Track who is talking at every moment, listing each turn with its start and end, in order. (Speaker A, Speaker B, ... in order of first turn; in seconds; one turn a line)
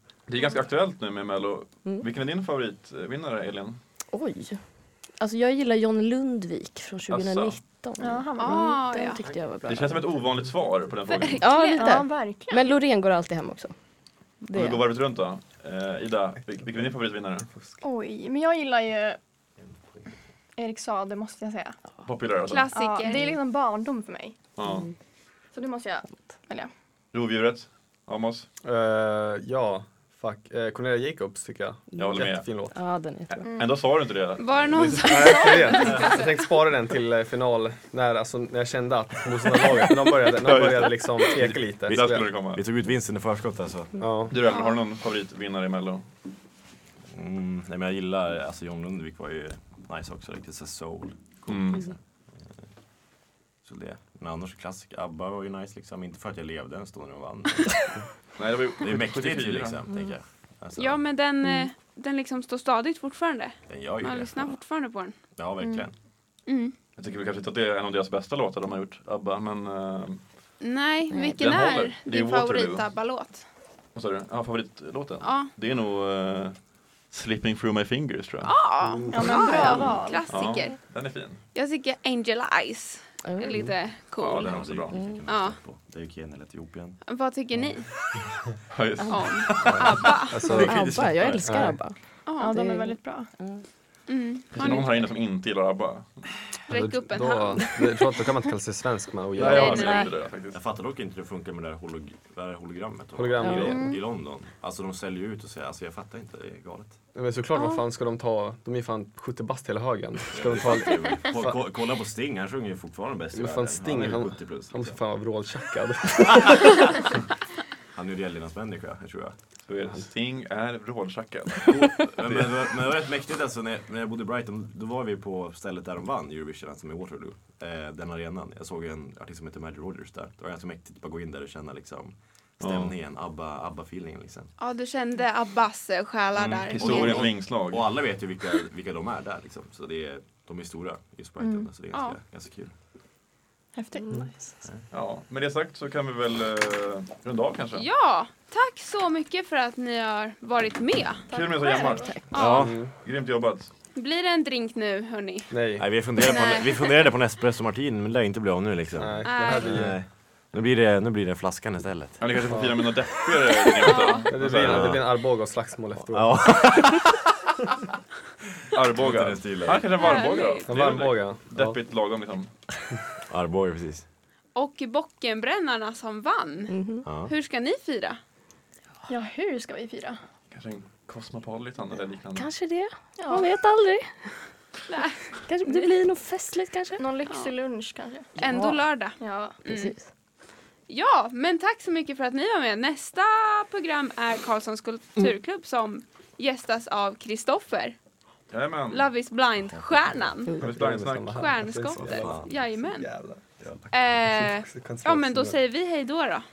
Speaker A: 0.3-3.8
Speaker B: 4.1-4.6
Speaker B: 5.2-10.0
Speaker A: 7.1-7.6
Speaker C: 8.0-8.9
Speaker D: 8.4-9.2
Speaker A: 9.7-11.4
Speaker D: 11.1-12.1
Speaker B: 11.4-13.7
Speaker C: 11.8-12.7
Speaker B: 14.4-14.8
Speaker A: 14.5-17.5
Speaker C: 17.8-19.2
Speaker E: 19.6-20.1
Speaker C: 20.6-21.8
Speaker A: 22.0-22.7
Speaker D: 22.5-23.3
Speaker C: 22.7-24.3
Speaker B: 23.1-23.4
Speaker A: 24.6-24.9
Speaker B: 24.6-24.9
Speaker C: 25.5-26.7
Speaker A: 27.1-28.5
Speaker F: 28.6-32.8
Speaker B: 31.9-33.4
Speaker A: 32.0-32.5
Speaker A: 33.3-35.1
Speaker C: 33.4-33.8
Speaker D: 34.4-36.3
Speaker F: 34.7-42.3
Speaker A: 40.4-42.6
Speaker E: 41.4-44.0
Speaker F: 44.0-44.3
Speaker A: 44.3-46.0
Speaker D: 44.5-44.8
Speaker E: 47.1-52.0
Speaker A: 51.5-51.9
Speaker E: 53.6-58.0
Speaker A: 58.4-59.8
Speaker E: 58.8-61.0
Speaker D: 60.8-65.2
Speaker B: 61.4-61.7
Speaker E: 63.6-64.5
Speaker E: 65.3-66.0
Speaker D: 66.5-66.7
Speaker A: 67.0-70.2
Speaker D: 70.6-73.4
Speaker B: 71.1-71.6
Speaker A: 71.4-72.9
Speaker A: 73.9-78.6
Speaker D: 75.2-75.5
Speaker D: 78.4-84.7
Speaker C: 79.1-80.3
Speaker A: 79.2-79.7
Speaker A: 80.3-81.4
Speaker A: 84.1-85.0
Speaker E: 84.4-87.0
Speaker B: 84.9-85.2
Speaker D: 85.2-85.6
Speaker D: 87.0-88.0
Speaker A: 88.7-91.4
Speaker D: 89.1-90.6
Speaker F: 89.6-91.8
Speaker B: 90.5-93.6
Speaker D: 92.2-92.5
Speaker C: 92.3-93.3
Speaker D: 94.1-95.1
Speaker A: 94.5-96.2
Speaker D: 96.7-97.9
Speaker F: 96.7-100.0
Speaker A: 99.3-100.6
Speaker B: 99.3-100.1
Speaker D: 99.5-100.0
Speaker E: 100.5-107.0
Speaker F: 103.1-103.9
Speaker B: 103.4-103.7
Speaker C: 103.6-104.0
Speaker F: 107.1-111.6
Speaker E: 110.3-114.9
Speaker F: 113.3-116.8
Speaker E: 117.9-119.3
Speaker A: 119.7-122.4
Speaker E: 121.7-134.5
Speaker A: 132.6-132.9
Speaker D: 134.6-137.3
Speaker A: 136.3-138.0
Speaker E: 136.7-142.7
Speaker C: 141.4-141.7
Speaker D: 141.9-142.2
Speaker C: 143.7-144.5
Speaker A: 144.9-147.8
Speaker D: 147.7-152.7
Speaker C: 151.3-152.3
Speaker A: 151.3-153.7
Speaker E: 152.3-152.8
Speaker F: 152.5-152.9
Speaker D: 153.9-157.0
Speaker F: 155.5-155.9
Speaker E: 155.8-162.3
Speaker F: 158.9-160.0
Speaker D: 159.2-159.7
Speaker A: 162.2-165.0
Speaker F: 162.5-162.8
Speaker D: 163.8-164.3
Speaker F: 164.3-166.7
Speaker E: 164.5-165.0
Speaker E: 166.1-167.2
Speaker A: 168.7-172.5
Speaker E: 168.9-170.0
Speaker D: 170.0-170.7
Speaker F: 170.7-171.8
Speaker E: 173.3-174.0
Speaker D: 174.6-178.2
Speaker B: 176.7-177.1
Speaker E: 177.0-177.3
Speaker C: 179.1-180.2
Speaker A: 180.5-182.5
Speaker B: 182.3-184.3
Speaker C: 183.2-183.5
Speaker D: 184.9-185.9
Speaker B: 185.4-187.0
Speaker C: 187.0-188.3
Speaker D: 188.4-189.9
Speaker B: 188.4-188.8
Speaker C: 189.2-189.6
Speaker B: 189.7-190.0
Speaker D: 190.9-197.9
Speaker A: 198.5-199.1
Speaker D: 198.9-200.6
Speaker E: 199.7-200.2
Speaker A: 200.6-201.6
Speaker F: 200.6-205.6
Speaker D: 201.3-203.1
Speaker E: 202.0-202.5
Speaker D: 203.9-206.4